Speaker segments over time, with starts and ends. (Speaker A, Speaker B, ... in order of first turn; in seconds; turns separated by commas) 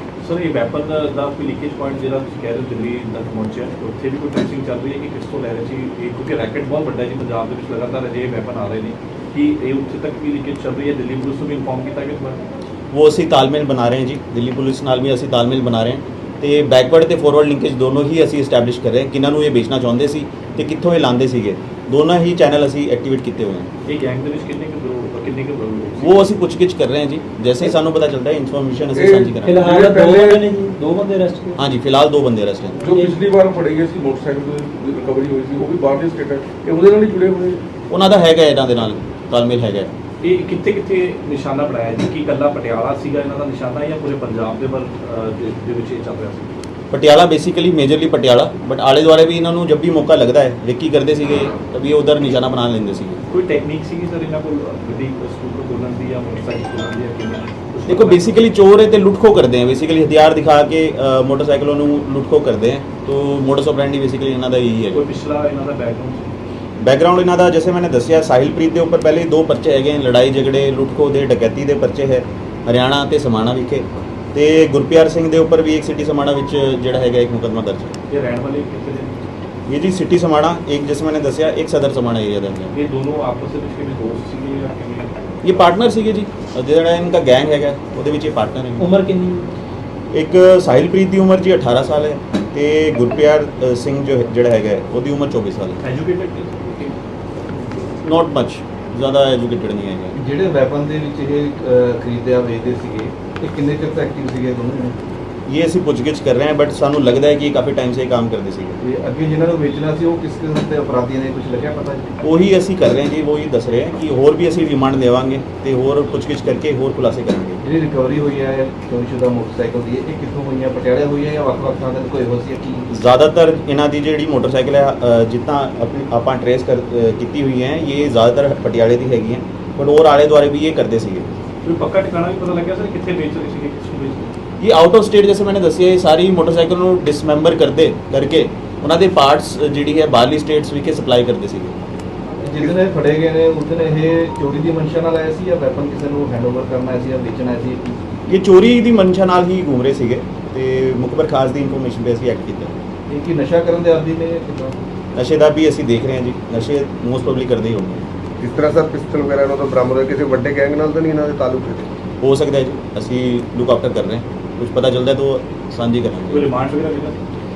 Speaker A: 0.2-12.4, Speaker B: 12.9-23.7, Speaker A: 23.9-26.3, Speaker B: 26.0-29.7, Speaker C: 29.0-30.3, Speaker D: 29.4-31.6, Speaker E: 30.0-30.4, Speaker B: 31.6-32.9, Speaker C: 32.8-37.6, Speaker D: 32.9-33.2, Speaker B: 37.9-39.9, Speaker A: 40.2-46.5, Speaker B: 46.9-53.2, Speaker A: 53.3-58.4, Speaker B: 57.9-65.0, Speaker A: 64.9-66.2, Speaker B: 66.8-77.9, Speaker A: 78.1-79.2, Speaker B: 79.7-82.7, Speaker A: 82.7-85.2, Speaker B: 85.4-89.0, Speaker D: 88.8-89.5, Speaker B: 90.1-95.8, Speaker A: 95.8-97.0, Speaker B: 98.0-100.2, Speaker F: 100.2-105.0, Speaker B: 105.5-108.8, Speaker F: 108.8-112.1, Speaker B: 112.2-117.6, Speaker F: 117.6-122.9, Speaker B: 122.9-131.3, Speaker A: 131.7-134.3, Speaker B: 134.6-141.8, Speaker F: 142.4-148.0, Speaker B: 148.3-152.7, Speaker F: 153.1-154.8, Speaker B: 155.2-158.1, Speaker E: 158.4-161.9, Speaker B: 162.2-166.5, Speaker A: 166.3-167.2